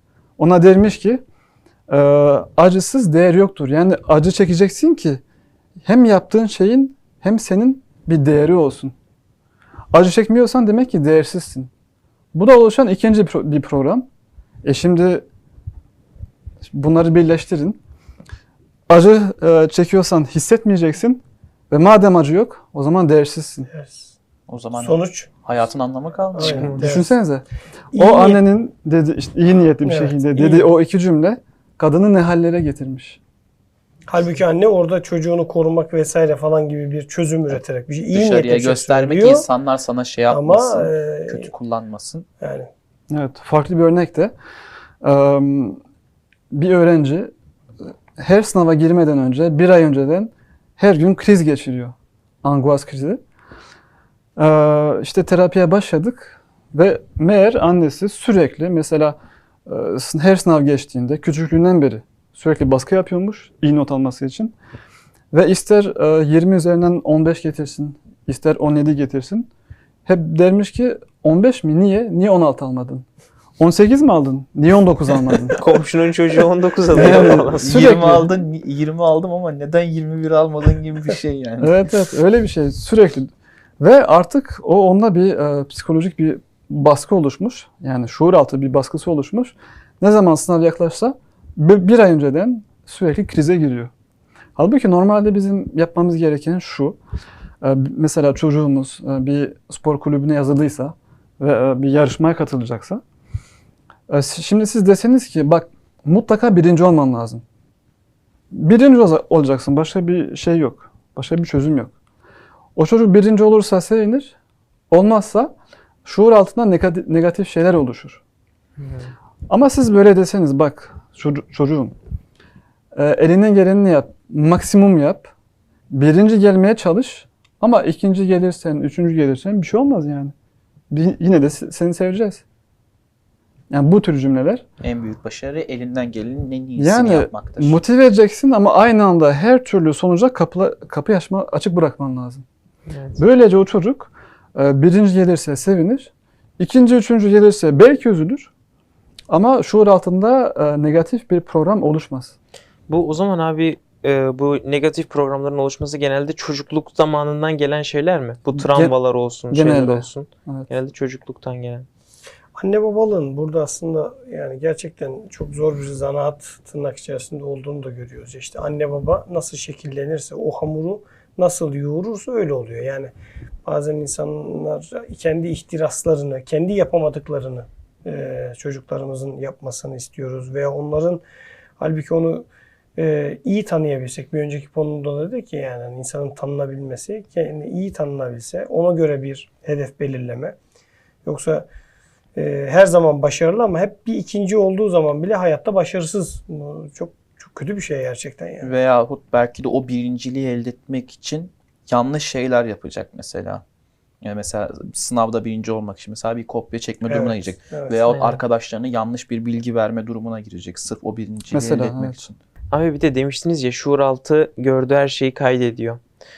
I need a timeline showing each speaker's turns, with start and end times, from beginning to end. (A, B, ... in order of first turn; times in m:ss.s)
0:00.4-0:01.2 A
0:01.9-0:05.2 A
0:05.8-0:08.9 A
0:09.9-0:11.7 A
0:12.3-0:14.0 A
0:14.6-0:15.2 A
0:16.7-0:17.8 A
0:18.9-0:23.7 A
0:23.7-0:24.1 B
0:24.5-0:26.7 C
0:24.8-0:25.3 B
0:26.3-0:27.1 B
0:26.4-0:26.9 D
0:26.7-0:27.4 A
0:27.9-0:28.4 B
0:28.0-0:33.2 A
0:29.8-0:30.7 B
0:34.1-0:39.5 B
0:38.1-0:42.2 C
0:40.3-0:41.5 B
0:42.4-0:42.7 B
0:43.1-0:44.3 A
0:45.0-0:45.8 A
0:46.5-0:47.3 A
0:48.2-0:53.2 A
0:54.4-1:04.5 A
1:05.3-1:09.5 A
1:10.0-1:13.0 A
1:13.6-1:15.6 A
1:15.5-1:18.0 D
1:16.9-1:18.3 A
1:17.0-1:21.8 C
1:21.6-1:33.9 A
1:34.6-1:37.0 A
1:37.6-1:43.0 A
1:44.1-1:47.4 A
1:48.5-1:51.9 A
1:52.8-1:54.3 A
1:54.9-1:55.5 A
1:56.0-1:58.2 A
1:58.8-1:59.1 D
1:59.5-2:01.9 A
2:02.9-2:05.3 A
2:05.9-2:10.3 A
2:10.9-2:12.4 A
2:13.7-2:14.6 A
2:14.8-2:17.8 C
2:16.8-2:22.4 A
2:22.9-2:23.2 D
2:23.2-2:28.5 A
2:29.3-2:32.3 A
2:32.9-2:41.9 D
2:38.6-2:39.0 A
2:39.5-2:40.7 A
2:42.6-2:53.1 B
2:53.6-3:01.2 B
3:01.8-3:10.5 B
3:11.2-3:11.6 B
3:12.4-3:18.7 B
3:18.6-3:23.6 C
3:24.2-3:32.4 C
3:27.1-3:28.0 B
3:28.1-3:28.4 D
3:31.5-3:32.2 A
3:32.7-3:36.0 D